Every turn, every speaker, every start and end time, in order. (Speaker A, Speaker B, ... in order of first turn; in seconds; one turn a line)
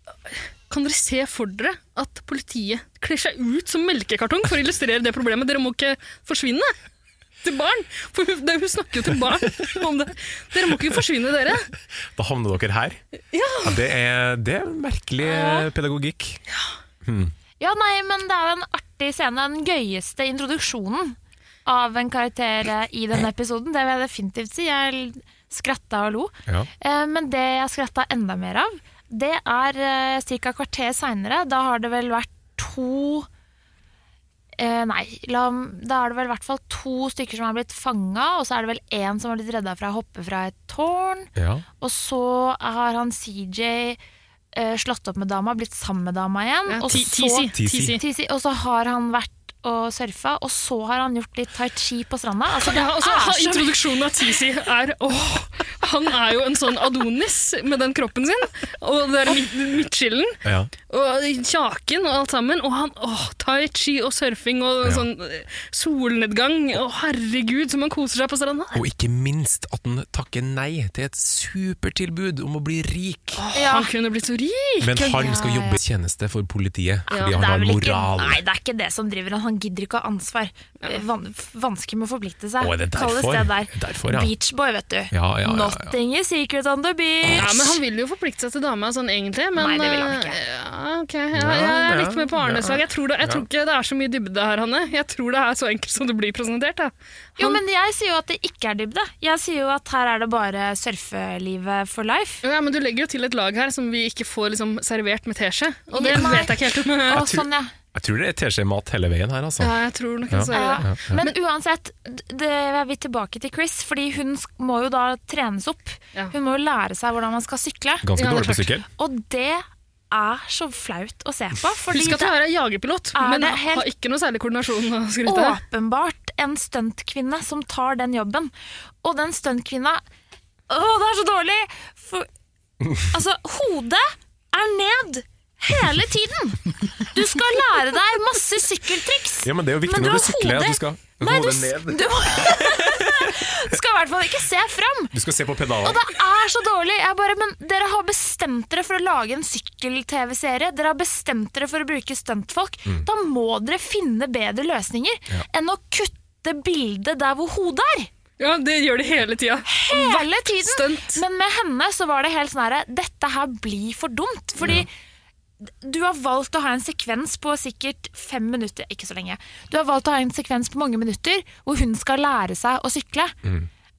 Speaker A: 0.3-6.7
Speaker A: 7.4-11.7
Speaker B: 12.1-13.0
Speaker A: 13.3-13.8
Speaker B: 13.6-16.4
Speaker C: 15.2-15.7
Speaker B: 17.1-17.3
Speaker C: 17.6-33.3
Speaker C: 34.6-44.0
Speaker B: 41.4-41.6
Speaker C: 44.5-53.8
Speaker A: 46.7-48.0
Speaker B: 47.5-48.0
Speaker A: 52.6-68.8
Speaker B: 60.4-60.7
Speaker B: 68.7-73.4
Speaker A: 73.4-75.4
Speaker C: 73.5-73.9
Speaker B: 74.8-78.4
Speaker C: 75.1-75.8
Speaker A: 77.1-77.4
Speaker C: 77.1-87.8
Speaker B: 82.6-84.3
Speaker B: 85.1-86.0
Speaker A: 87.4-97.6
Speaker C: 89.6-90.4
Speaker B: 91.3-93.5
Speaker C: 97.4-102.4
Speaker A: 102.4-107.3
Speaker C: 105.9-107.7
Speaker B: 107.1-109.8
Speaker A: 109.6-111.3
Speaker B: 110.3-111.2
Speaker C: 110.5-118.3
Speaker B: 118.0-118.9
Speaker A: 118.2-118.7
Speaker C: 118.9-122.3
Speaker A: 121.9-125.6
Speaker C: 123.2-123.9
Speaker C: 125.3-128.5
Speaker C: 129.0-130.0
Speaker C: 130.7-132.3
Speaker C: 133.1-145.1
Speaker B: 139.4-143.4
Speaker B: 145.1-146.0
Speaker C: 145.8-158.1
Speaker A: 158.4-161.2
Speaker C: 159.7-164.9
Speaker B: 164.6-164.9
Speaker C: 165.7-173.3